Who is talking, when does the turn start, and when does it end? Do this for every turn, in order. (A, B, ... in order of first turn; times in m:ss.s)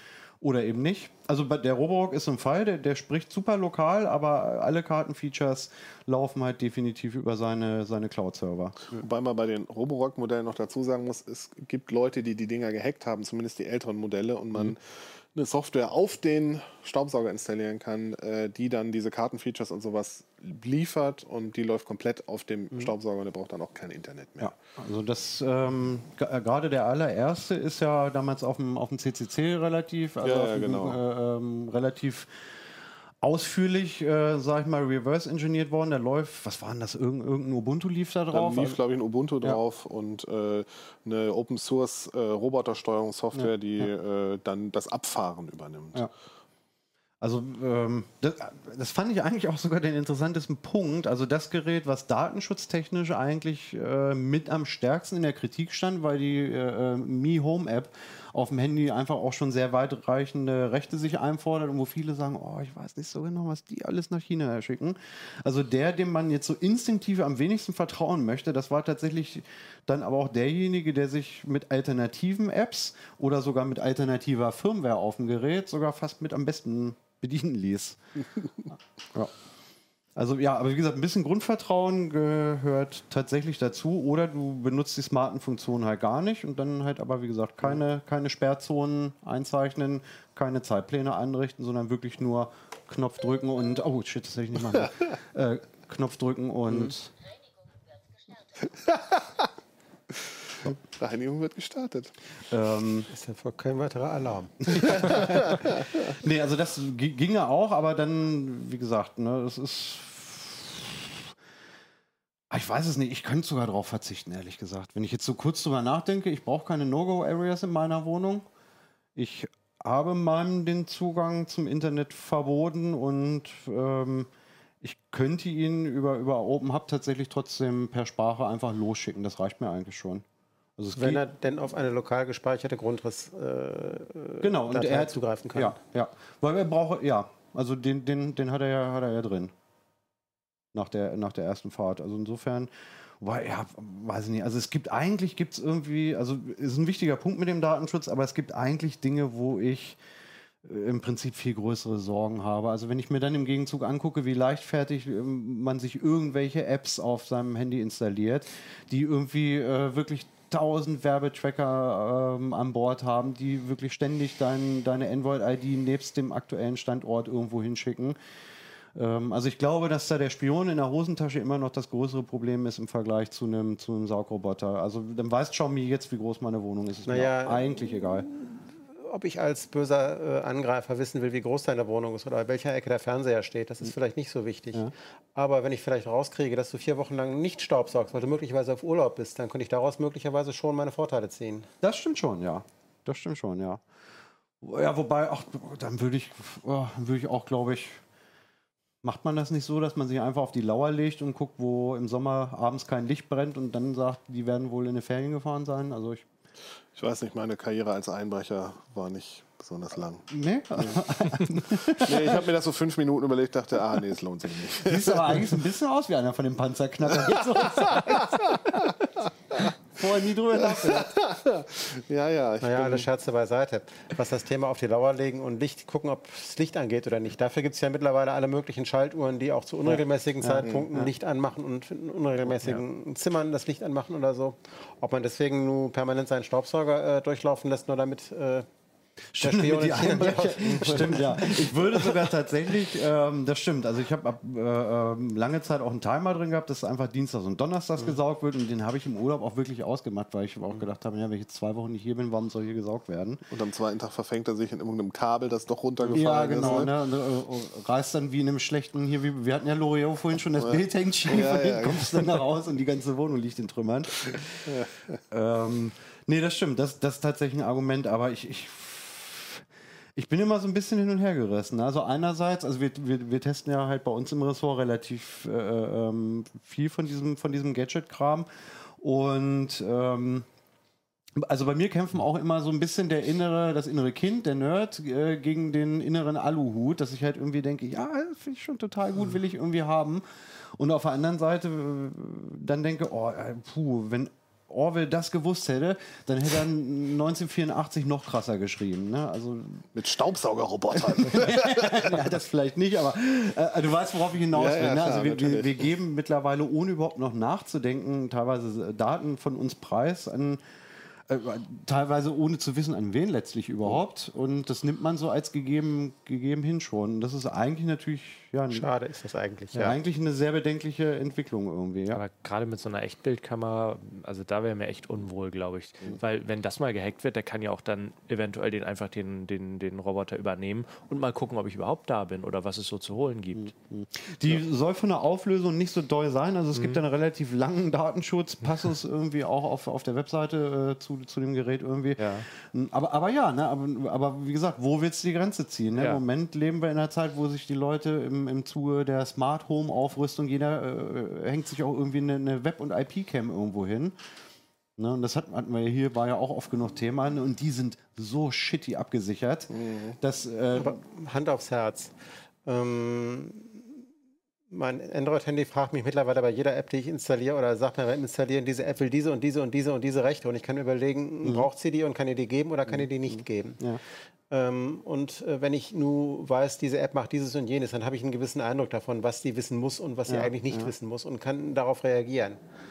0:00.4-0:08.8 A
0:09.0-0:24.5 B
0:24.4-0:32.6 A
0:30.2-0:31.0 B
0:33.2-0:38.8 A
0:38.3-0:46.1 B
0:47.2-1:18.0 A
1:20.2-1:37.1 A
1:38.7-1:39.5 B
1:40.1-1:42.1 B
1:42.5-1:43.1 A
1:43.1-1:45.4 C
1:44.7-1:45.5 A
1:46.1-1:51.3 A
1:52.5-1:58.4 A
1:59.2-2:04.3 A
2:04.8-2:10.2 A
2:10.8-2:11.2 A
2:11.0-2:15.8 C
2:14.4-2:19.5 A
2:20.7-2:30.0 A
2:30.6-2:48.2 A
2:49.0-2:58.3 A
2:57.1-3:11.7 C
3:11.8-3:13.8 A
3:14.6-3:18.0 A
3:19.0-3:26.3 A
3:26.9-3:31.0 B
3:30.3-3:32.5 A
3:31.9-3:35.5 B
3:34.8-3:38.9 A
3:37.6-3:39.7 B
3:39.9-3:41.1 A
3:40.6-3:43.1 B
3:42.6-3:58.7 C
3:49.8-3:51.1 A
3:59.4-4:13.4 A
3:59.4-4:02.3 C
4:13.5-4:17.0 B
4:16.1-4:24.7 A
4:20.6-4:22.4 B
4:24.7-4:25.2 B
4:25.3-4:29.6 A
4:30.2-4:38.5 A
4:39.0-4:40.5 A
4:41.4-4:50.2 A
4:50.8-4:59.9 A
5:00.0-5:02.1 B
5:00.9-5:10.6 A
5:04.5-5:05.9 B
5:11.3-5:18.9 A
5:18.7-5:19.9 C
5:19.8-5:22.2 A
5:22.1-5:33.7 D
5:33.6-5:54.2 A
5:36.7-5:37.0 D
5:42.2-5:42.5 D
5:46.0-5:46.2 D
5:55.0-6:01.0 A
5:59.7-6:00.2 B
6:00.7-6:02.1 C
6:02.6-6:04.0 C
6:04.7-6:13.8 C
6:11.4-6:11.7 A
6:12.9-6:14.0 A
6:14.5-6:22.6 C
6:20.3-6:20.9 A